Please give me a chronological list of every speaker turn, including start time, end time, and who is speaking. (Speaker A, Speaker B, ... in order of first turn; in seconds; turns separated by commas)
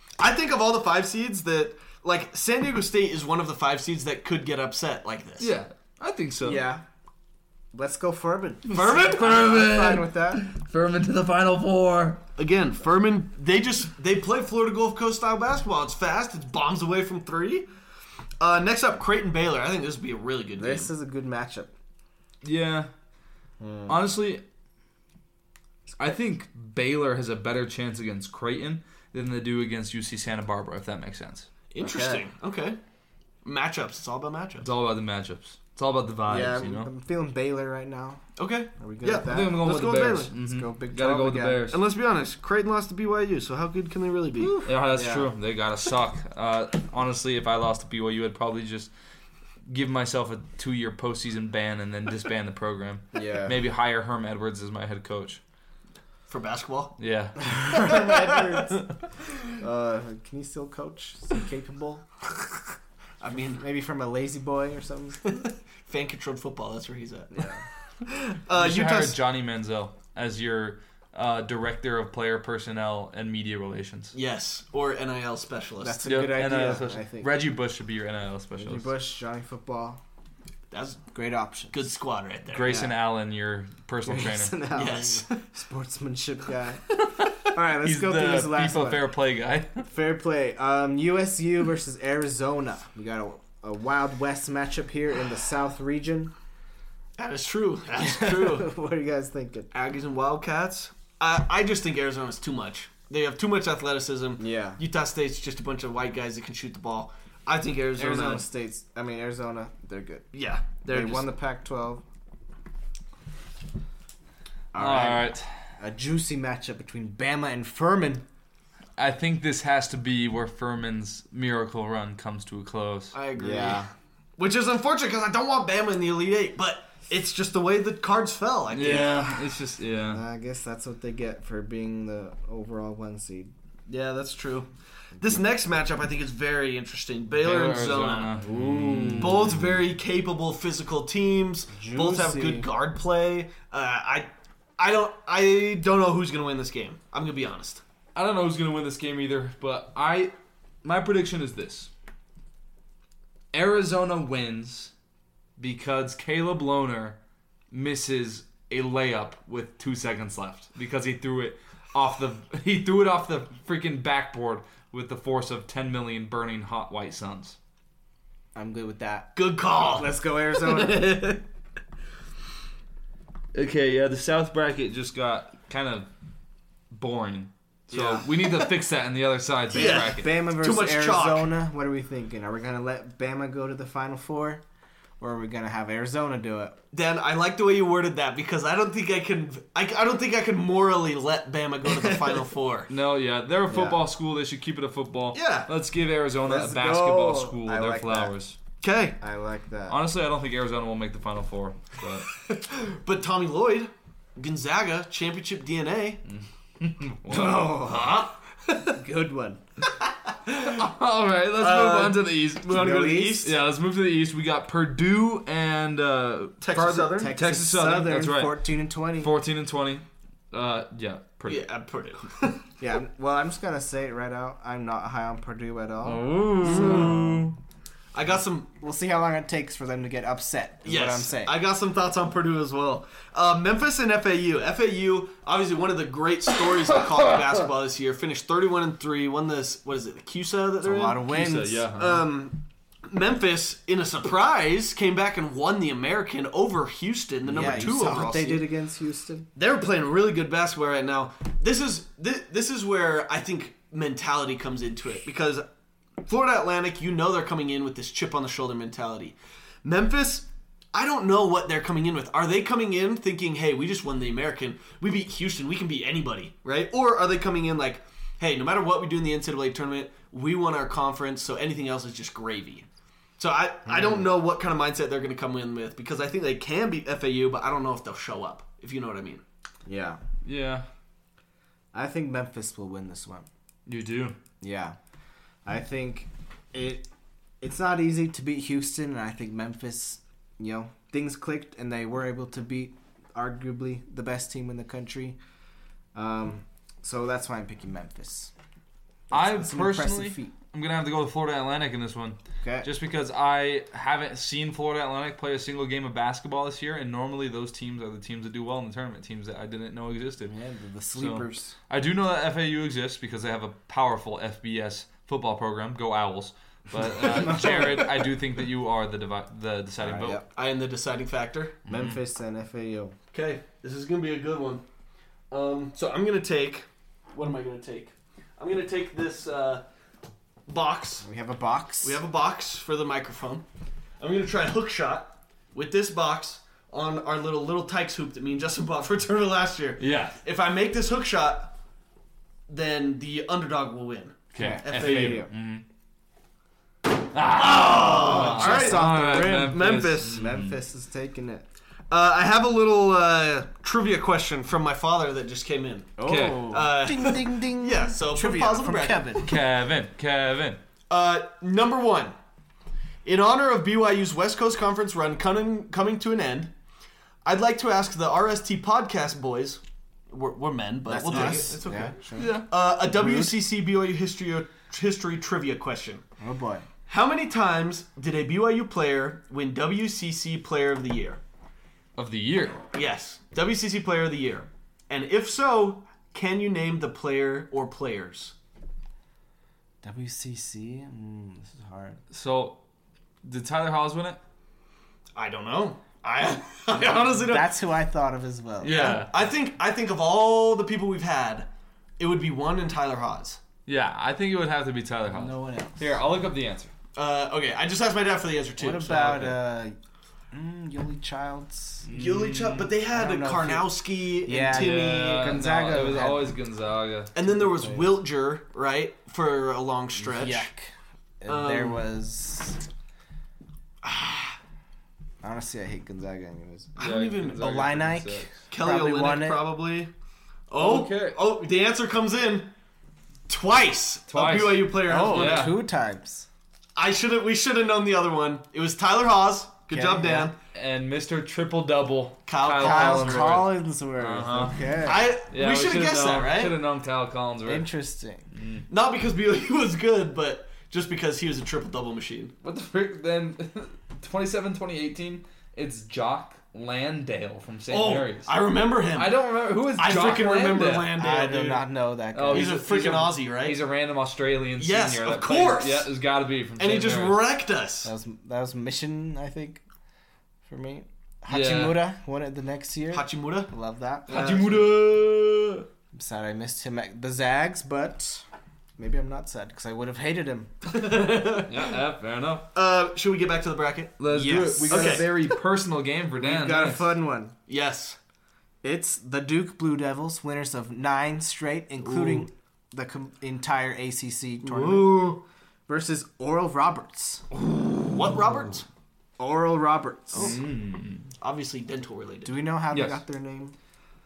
Speaker A: 0.2-5.5, Speaker B: 5.4-6.6, Speaker C: 6.4-6.8, Speaker C: 7.7-10.4, Speaker B: 8.7-12.2, Speaker A: 8.7-9.4, Speaker A: 12.4-17.7, Speaker A: 18.4-20.9, Speaker C: 20.6-21.7, Speaker B: 22.4-22.9, Speaker C: 23.6-24.0, Speaker B: 23.9-24.4, Speaker B: 26.0-31.5, Speaker A: 31.7-32.8, Speaker C: 31.8-32.2, Speaker A: 33.4-34.7, Speaker B: 34.6-36.9, Speaker C: 36.3-38.2, Speaker A: 38.4-40.3, Speaker C: 38.8-39.7, Speaker B: 39.2-41.8, Speaker C: 40.4-41.7, Speaker A: 41.7-44.6, Speaker C: 44.4-45.3, Speaker B: 44.6-48.9, Speaker B: 49.7-55.4, Speaker C: 53.1-53.6, Speaker A: 56.3-57.0, Speaker B: 57.0-58.0, Speaker C: 57.5-58.9, Speaker A: 57.9-58.6, Speaker C: 59.5-62.1, Speaker A: 63.2-63.6, Speaker C: 63.6-65.2, Speaker A: 65.2-67.5, Speaker C: 67.3-67.7, Speaker A: 68.0-69.2, Speaker B: 68.5-74.1, Speaker A: 74.1-76.0, Speaker C: 75.8-77.3, Speaker B: 76.0-78.9, Speaker C: 78.6-80.0, Speaker A: 80.7-81.1, Speaker C: 81.1-81.8, Speaker A: 81.7-82.9, Speaker B: 82.5-84.6, Speaker C: 84.0-89.1, Speaker A: 84.7-85.4, Speaker B: 86.9-89.9, Speaker C: 89.9-96.3, Speaker A: 97.2-98.7, Speaker C: 98.0-99.7, Speaker A: 99.7-108.4, Speaker C: 104.4-104.8, Speaker C: 108.0-110.3, Speaker A: 110.3-111.3, Speaker C: 110.9-112.0, Speaker C: 114.7-118.2, Speaker B: 114.8-115.5, Speaker B: 119.0-123.2, Speaker A: 123.1-129.3, Speaker C: 123.4-123.9, Speaker B: 128.7-130.2, Speaker C: 128.8-129.2, Speaker C: 130.1-133.5, Speaker A: 133.9-134.7, Speaker A: 135.2-138.3, Speaker B: 137.4-139.6, Speaker C: 138.4-139.7, Speaker A: 139.1-147.8, Speaker C: 141.7-142.7, Speaker B: 148.2-150.3, Speaker B: 150.8-151.9, Speaker B: 153.5-154.9, Speaker B: 155.6-157.2, Speaker B: 157.7-167.6, Speaker C: 168.6-171.3, Speaker A: 169.4-171.4, Speaker B: 173.5-176.1, Speaker B: 176.9-180.3, Speaker C: 177.9-178.2, Speaker A: 179.7-181.5, Speaker C: 179.7-184.6, Speaker C: 185.2-186.8, Speaker A: 186.9-192.9, Speaker C: 191.9-192.4, Speaker B: 192.9-198.6, Speaker C: 193.7-194.0, Speaker A: 195.3-195.7, Speaker C: 196.4-198.3, Speaker A: 198.8-199.2, Speaker C: 199.2-200.0, Speaker B: 199.9-202.3, Speaker A: 202.4-206.2, Speaker B: 206.3-208.3, Speaker C: 207.3-208.3, Speaker C: 208.9-209.6, Speaker B: 210.5-218.6, Speaker A: 211.6-213.6, Speaker C: 212.7-213.5, Speaker A: 216.6-217.3, Speaker C: 217.2-219.3, Speaker B: 219.2-221.6, Speaker A: 221.5-222.7, Speaker C: 222.8-227.5, Speaker B: 226.0-227.6, Speaker A: 226.6-227.2, Speaker A: 228.1-228.7, Speaker C: 228.8-231.6, Speaker A: 230.8-241.3, Speaker C: 240.8-241.9, Speaker B: 241.3-242.2, Speaker A: 241.9-248.7, Speaker C: 247.5-249.5, Speaker A: 249.6-255.6, Speaker A: 256.2-272.9, Speaker A: 273.4-279.4, Speaker C: 273.9-274.2, Speaker C: 279.9-280.2, Speaker B: 280.4-280.9, Speaker C: 281.9-283.5, Speaker B: 283.9-284.4, Speaker C: 284.6-285.0, Speaker C: 285.6-287.1, Speaker C: 287.6-295.4, Speaker C: 296.1-298.5, Speaker C: 299.3-300.5, Speaker B: 299.3-310.6, Speaker C: 302.6-302.9, Speaker C: 310.5-311.8, Speaker B: 311.1-320.4, Speaker C: 317.1-318.2, Speaker C: 320.0-320.4, Speaker A: 320.5-321.8, Speaker C: 321.9-323.1, Speaker B: 321.9-322.2, Speaker A: 323.3-324.8, Speaker A: 325.5-329.9, Speaker A: 330.7-331.2, Speaker C: 331.2-332.2, Speaker A: 332.0-333.6, Speaker A: 334.2-341.7, Speaker B: 340.0-340.4, Speaker A: 342.7-345.4, Speaker B: 344.5-345.8, Speaker C: 344.6-345.5, Speaker B: 347.3-350.8, Speaker A: 347.5-350.4, Speaker C: 348.2-351.7, Speaker A: 352.1-359.4, Speaker C: 356.2-359.5, Speaker B: 356.2-356.8, Speaker B: 359.4-360.8, Speaker A: 361.1-362.4, Speaker A: 363.2-366.7, Speaker A: 367.4-376.2, Speaker C: 371.1-373.6, Speaker B: 372.4-372.7, Speaker C: 376.4-376.9, Speaker A: 377.1-381.4, Speaker B: 382.2-382.8, Speaker A: 382.9-388.5, Speaker C: 390.0-392.2, Speaker B: 392.3-392.8, Speaker B: 393.4-394.4, Speaker A: 395.4-397.8, Speaker C: 397.4-399.2, Speaker B: 398.8-399.3, Speaker A: 398.9-401.7, Speaker A: 402.2-403.6, Speaker B: 403.9-406.9, Speaker C: 405.3-406.2, Speaker A: 407.1-409.6, Speaker C: 408.8-410.0, Speaker C: 410.5-412.1, Speaker B: 412.1-412.9, Speaker A: 412.1-415.5, Speaker C: 413.1-413.9, Speaker C: 414.4-416.5, Speaker B: 414.6-417.3, Speaker A: 417.4-420.7, Speaker C: 417.5-418.2, Speaker C: 420.2-422.8, Speaker A: 421.5-422.0, Speaker A: 424.0-424.5, Speaker C: 425.4-427.0, Speaker A: 427.0-427.8, Speaker B: 427.0-428.6, Speaker C: 427.6-429.6, Speaker A: 428.7-430.1, Speaker A: 430.7-432.7, Speaker B: 430.8-431.4, Speaker A: 433.5-435.8, Speaker B: 434.3-435.8, Speaker C: 435.0-436.5, Speaker A: 437.0-440.6, Speaker C: 439.9-440.5, Speaker B: 440.7-444.9, Speaker A: 442.5-443.6, Speaker C: 442.8-445.3, Speaker A: 445.1-446.8, Speaker B: 445.5-447.9, Speaker C: 447.6-448.5, Speaker B: 448.5-448.9, Speaker A: 448.9-452.5, Speaker B: 452.6-458.5, Speaker A: 457.9-461.9, Speaker B: 459.1-461.1, Speaker C: 461.2-462.8, Speaker B: 462.3-467.4, Speaker A: 462.5-463.8, Speaker A: 464.8-466.1, Speaker A: 466.8-468.1, Speaker C: 468.0-469.8, Speaker C: 470.7-474.9, Speaker B: 471.5-472.1, Speaker A: 473.1-473.7, Speaker B: 474.3-475.9, Speaker C: 476.1-478.4, Speaker C: 479.0-480.7, Speaker A: 480.9-481.9, Speaker B: 481.6-482.7, Speaker A: 482.7-484.2, Speaker B: 484.2-487.1, Speaker C: 484.3-485.4, Speaker A: 484.9-485.3, Speaker C: 486.4-487.6, Speaker A: 487.7-488.2, Speaker C: 488.8-497.4, Speaker A: 492.0-492.5, Speaker A: 494.6-495.4, Speaker A: 498.1-498.9, Speaker C: 499.4-500.6, Speaker A: 500.3-500.6, Speaker B: 500.4-501.3, Speaker A: 501.4-502.6, Speaker C: 502.4-503.8, Speaker B: 502.9-503.2